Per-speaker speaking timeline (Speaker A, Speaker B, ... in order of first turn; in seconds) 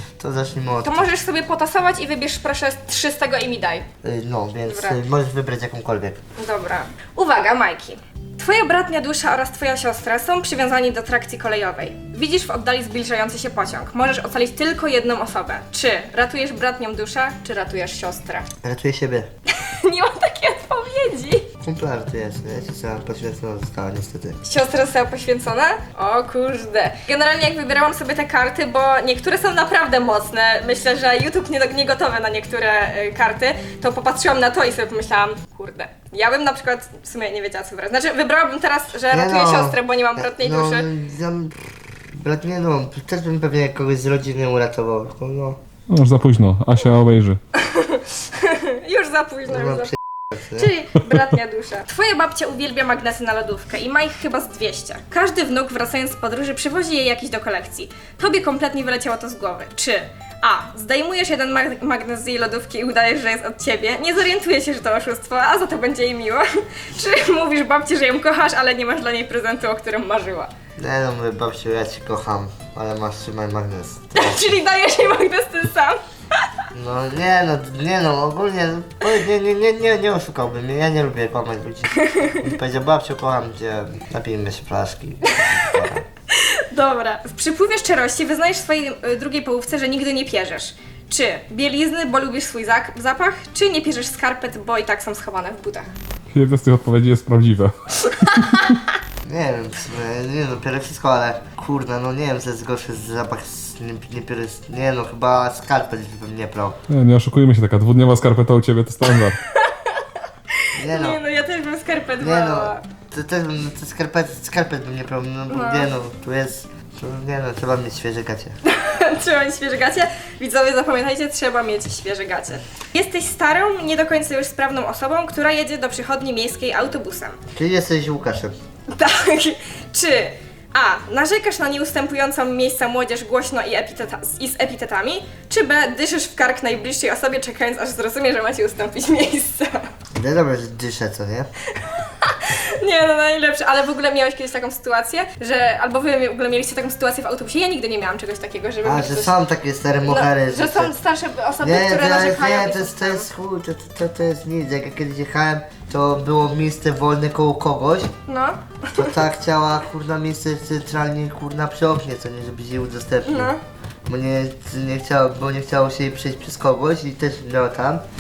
Speaker A: 0.2-1.1, 4.0-6.2, 18.6-19.3, 21.6-24.4, 39.1-45.6, 49.5-50.7, 70.8-74.5, 76.7-86.1, 99.2-106.8, 110.8-111.2, 112.2-118.6, 127.5-128.5, 140.2-141.5, 148.8-150.9, 151.6-158.1, 158.9-163.5, 164.1-168.0
Speaker B: 0.8-3.9, 4.7-5.0, 6.4-18.5, 19.5-21.5, 24.4-40.9, 47.6-49.9, 50.5-70.5, 74.2-76.5, 82.0-82.4, 85.3-85.7, 86.3-95.9, 109.5-110.0, 110.6-112.8, 115.5-115.9, 118.7-127.4, 128.9-139.9, 141.7-149.3, 150.1-153.3, 158.3-159.2, 163.3-163.6
Speaker C: 45.9-47.4, 96.3-98.7, 106.9-109.4